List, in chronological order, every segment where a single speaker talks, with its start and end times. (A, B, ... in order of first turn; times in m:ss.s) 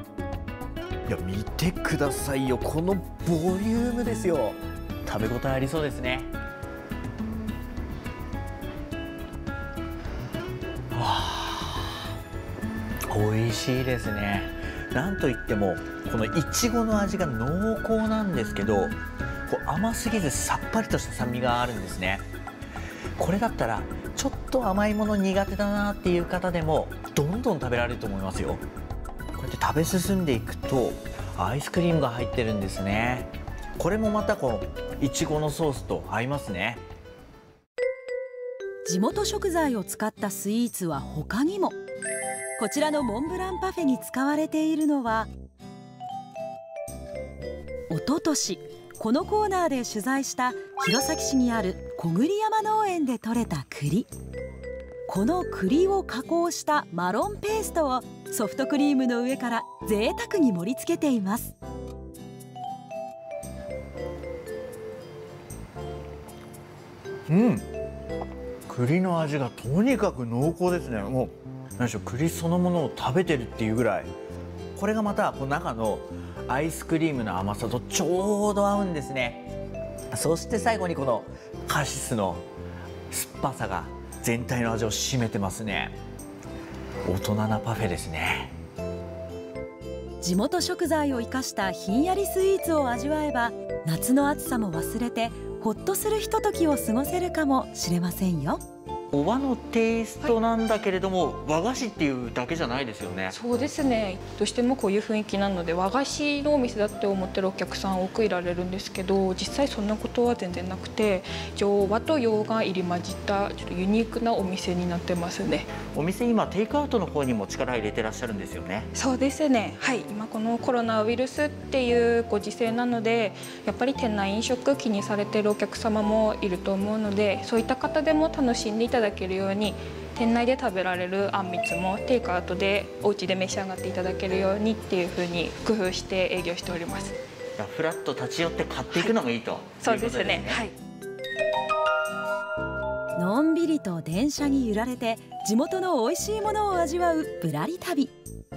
0:01.1-0:06.3 A
0:10.9-0:12.0 A
0:13.1-0:22.2 A
0:23.2-0:28.6 A
0:29.4-0:36.8 A
0:38.8-0:41.8 B
0:42.6-0:45.3 B
0:47.9-0:54.1 B
0:55.1-1:01.5 B
1:07.3-1:07.7 A
1:08.7-1:14.1 A
1:14.8-1:19.5 A
1:20.1-1:22.4 A
1:23.1-1:26.0 A
1:27.0-1:28.5 A
1:30.2-1:38.6 B
1:39.1-1:43.4 A
1:43.3-1:55.7 C
1:55.9-1:58.9 A
1:58.9-2:17.2 C
2:17.6-2:20.6 A
2:19.8-2:20.7 C
2:23.2-2:28.1 B